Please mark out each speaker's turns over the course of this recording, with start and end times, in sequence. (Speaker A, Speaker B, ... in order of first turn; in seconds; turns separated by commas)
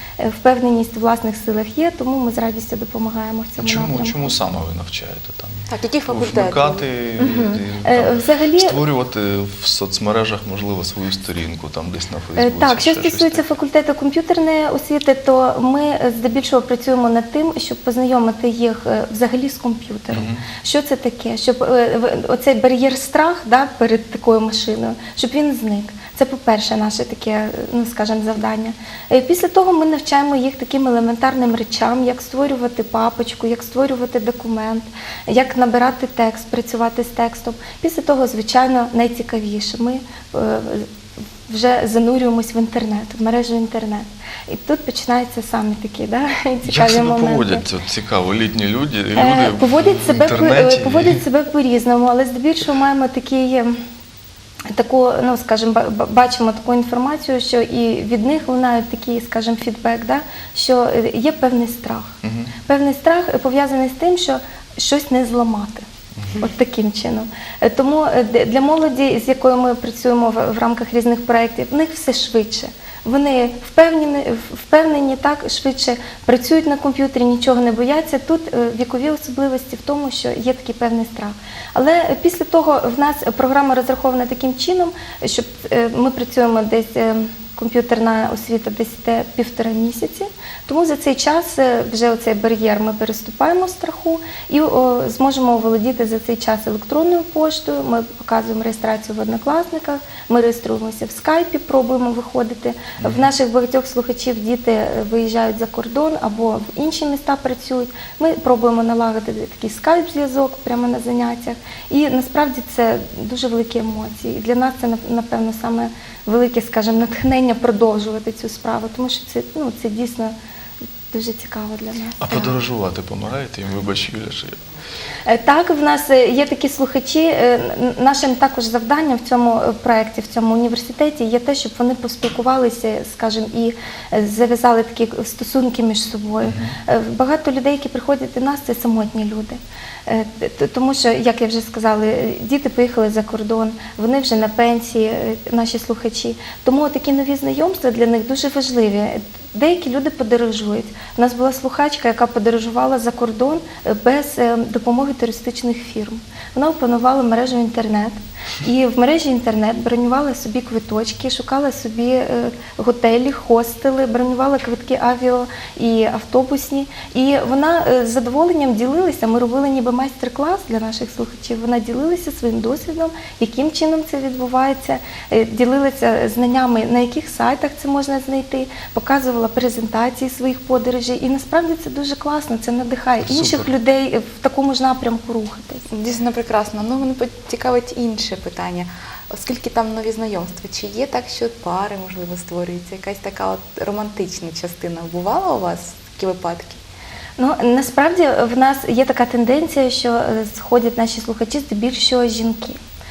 Speaker A: 0.2-4.3, Speaker B: 3.6-13.4, Speaker C: 5.7-6.8, Speaker A: 7.2-8.8, Speaker A: 12.4-40.9, Speaker B: 20.1-20.4, Speaker A: 41.5-47.6, Speaker B: 46.6-51.2, Speaker A: 49.1-53.8, Speaker A: 54.7-65.8, Speaker B: 62.2-62.5, Speaker A: 66.4-120.3, Speaker B: 103.0-103.2, Speaker A: 121.1-122.5, Speaker B: 122.2-124.6, Speaker A: 125.2-185.8, Speaker B: 136.4-136.8, Speaker B: 183.2-183.7, Speaker C: 185.9-196.8, Speaker A: 197.4-202.8